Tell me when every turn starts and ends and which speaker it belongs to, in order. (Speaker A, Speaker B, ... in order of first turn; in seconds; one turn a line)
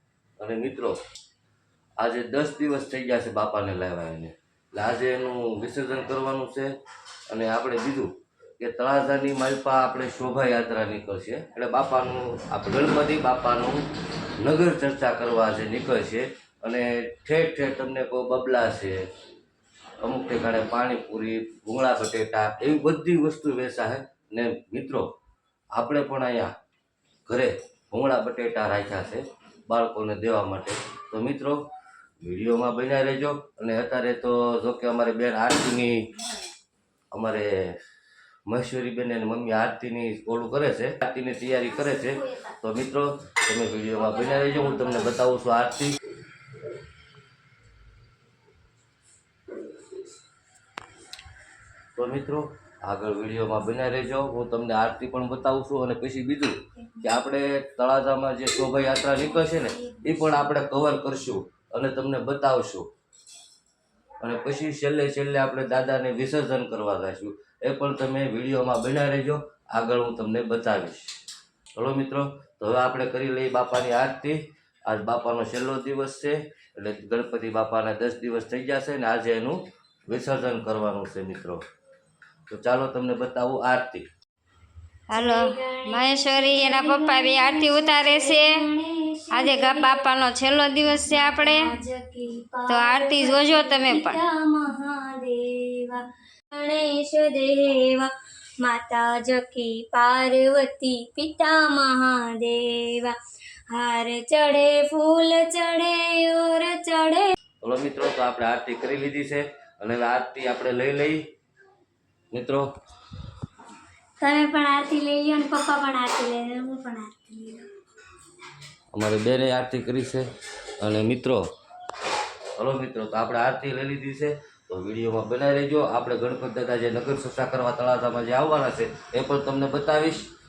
Speaker A: 0.4-1.0
Speaker A: 2.0-6.7
Speaker A: 7.3-13.8
Speaker A: 14.4-19.0
Speaker A: 20.0-25.1
Speaker A: 25.7-26.5
Speaker A: 27.3-31.7
Speaker A: 32.2-36.1
Speaker A: 37.1-37.7
Speaker A: 38.5-45.9
Speaker A: 52.0-62.9
Speaker B: 56.8-57.0
Speaker B: 58.9-60.4
Speaker A: 64.2-71.1
Speaker A: 71.8-81.6
Speaker A: 82.5-84.0
Speaker B: 85.1-90.0
Speaker C: 85.1-88.5
Speaker C: 89.3-91.7
Speaker B: 91.0-96.0
Speaker C: 92.7-94.2
Speaker B: 96.5-103.1
Speaker B: 103.7-107.3
Speaker A: 107.6-111.2
Speaker A: 112.3-112.6
Speaker B: 114.2-117.7
Speaker A: 118.9-120.3
Speaker A: 120.8-121.4
Speaker A: 122.6-130.3